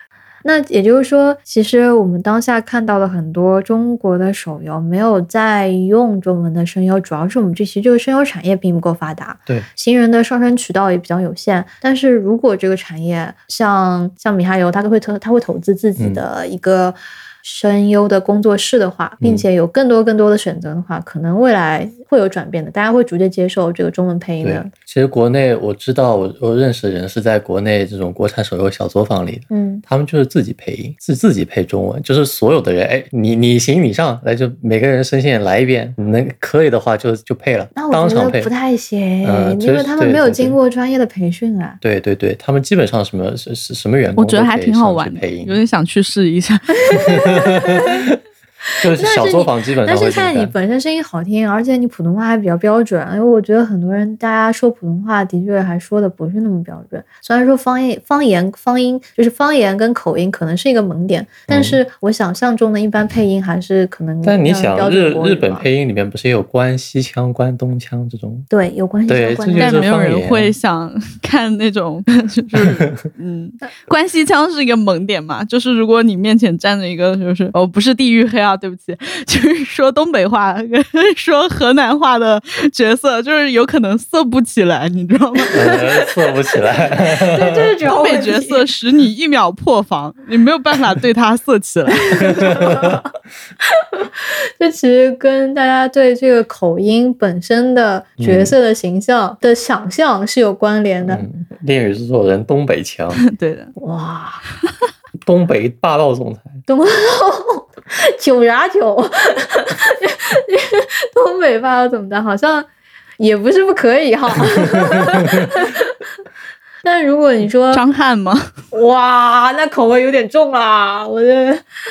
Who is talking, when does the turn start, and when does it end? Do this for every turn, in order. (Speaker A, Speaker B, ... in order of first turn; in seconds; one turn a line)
Speaker A: 0.4-24.7
Speaker B: 16.0-16.2
Speaker B: 24.4-38.5
Speaker A: 29.5-29.8
Speaker A: 37.7-41.8
Speaker B: 39.2-40.6
Speaker B: 41.8-45.6
Speaker C: 44.2-47.2
Speaker A: 46.9-48.1
Speaker B: 46.9-48.1
Speaker B: 48.8-50.5
Speaker A: 48.9-65.7
Speaker B: 61.5-61.8
Speaker B: 64.2-68.5
Speaker A: 68.5-69.9
Speaker B: 69.1-70.5
Speaker C: 69.6-85.7
Speaker B: 72.5-72.9
Speaker A: 85.4-88.7
Speaker B: 85.5-87.7
Speaker C: 87.9-92.6
Speaker A: 92.1-93.0
Speaker B: 92.2-93.0
Speaker A: 93.7-101.3
Speaker B: 98.2-98.5
Speaker B: 101.0-103.2
Speaker C: 103.2-103.7
Speaker A: 103.8-104.4
Speaker B: 105.2-106.6
Speaker A: 106.7-112.7
Speaker A: 113.2-115.9
Speaker B: 114.8-115.3
Speaker A: 116.8-117.8
Speaker C: 117.7-118.5
Speaker A: 118.7-121.6